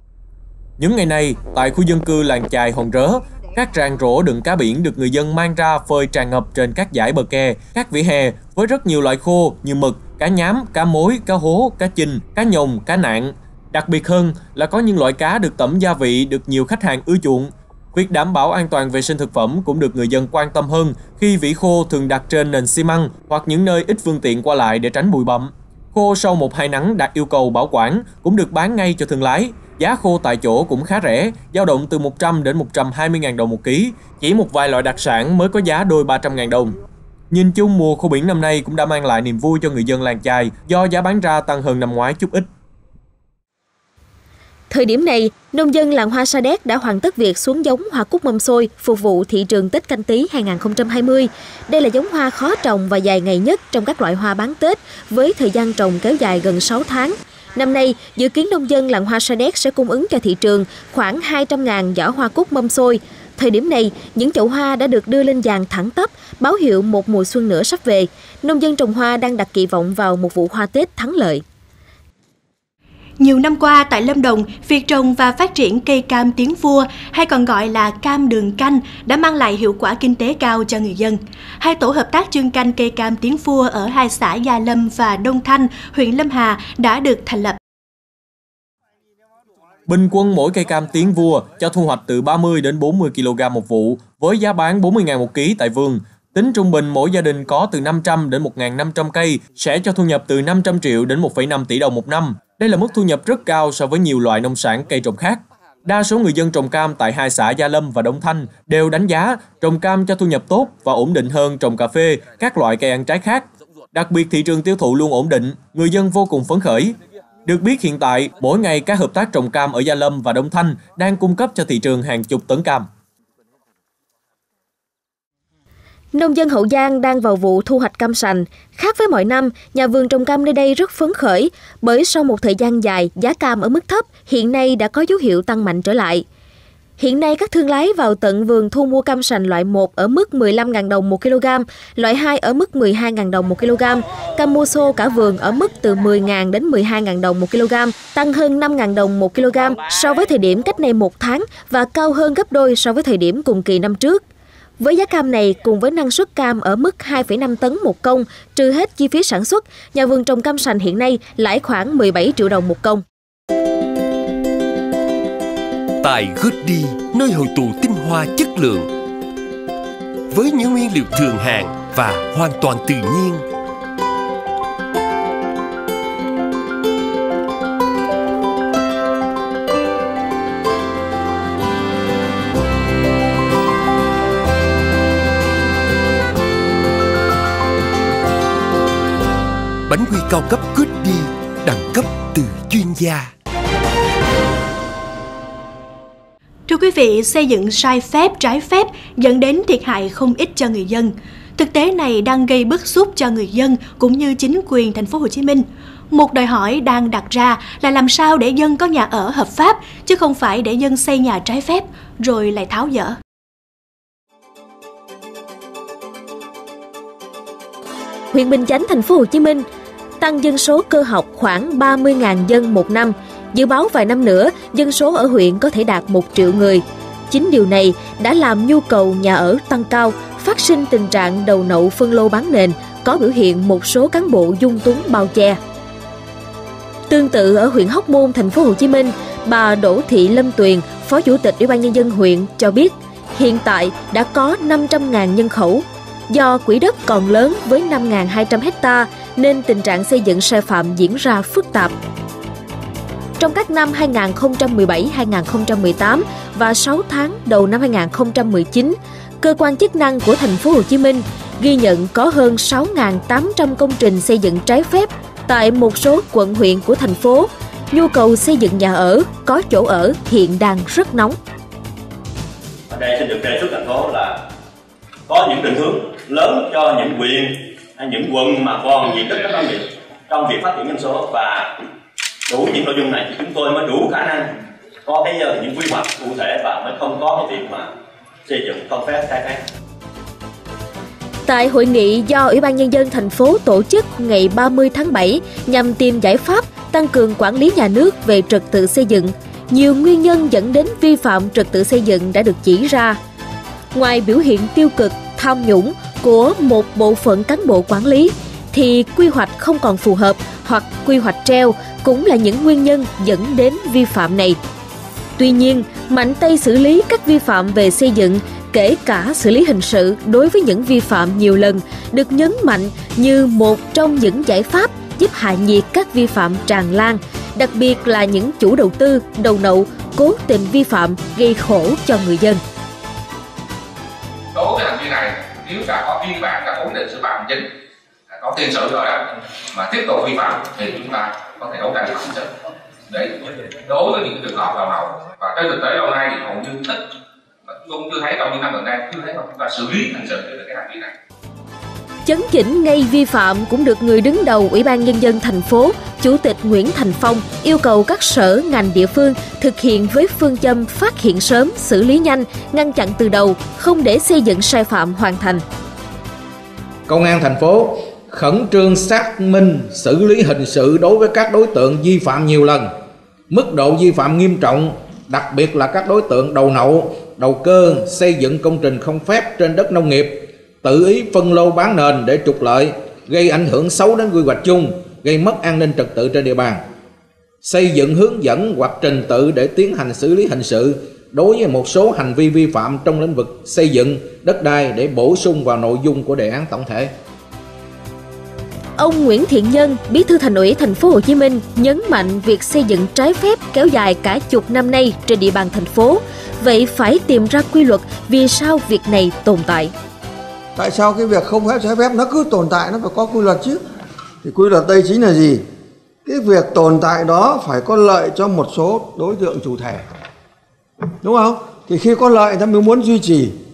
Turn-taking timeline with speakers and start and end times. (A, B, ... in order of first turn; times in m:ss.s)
0:00.8-0:36.8 A
0:37.3-0:42.5 A
0:44.7-1:11.4 B
1:13.2-1:27.6 C
1:29.9-1:56.9 A
1:57.4-2:02.9 A
2:06.1-2:16.2 B
2:17.0-2:34.2 B
2:34.8-2:43.0 B
2:46.0-2:48.9 D
2:50.3-2:53.4 D
3:09.8-3:13.3 D
3:16.7-3:33.2 C
3:38.3-3:39.6 B
3:40.2-3:55.6 B
3:57.1-4:11.9 B
4:13.4-4:31.4 B
4:32.9-4:34.4 E
4:35.3-4:41.7 E
4:39.2-4:39.7 D
4:42.5-4:44.5 E
4:45.1-4:47.9 E
4:48.5-4:49.6 E
4:51.4-5:03.2 B
5:03.9-5:14.6 B
5:15.4-5:32.6 B
5:34.5-5:37.7 F
5:38.3-5:42.5 F
5:43.1-5:47.0 F
5:47.7-5:51.1 F
5:52.2-6:05.6 B
6:07.1-6:12.9 G
6:13.5-6:26.8 G
6:27.6-6:37.1 G
6:39.0-6:49.9 B
6:50.8-6:53.8 H
6:54.4-6:55.6 H
6:56.2-7:00.0 H
7:01.2-7:03.6 H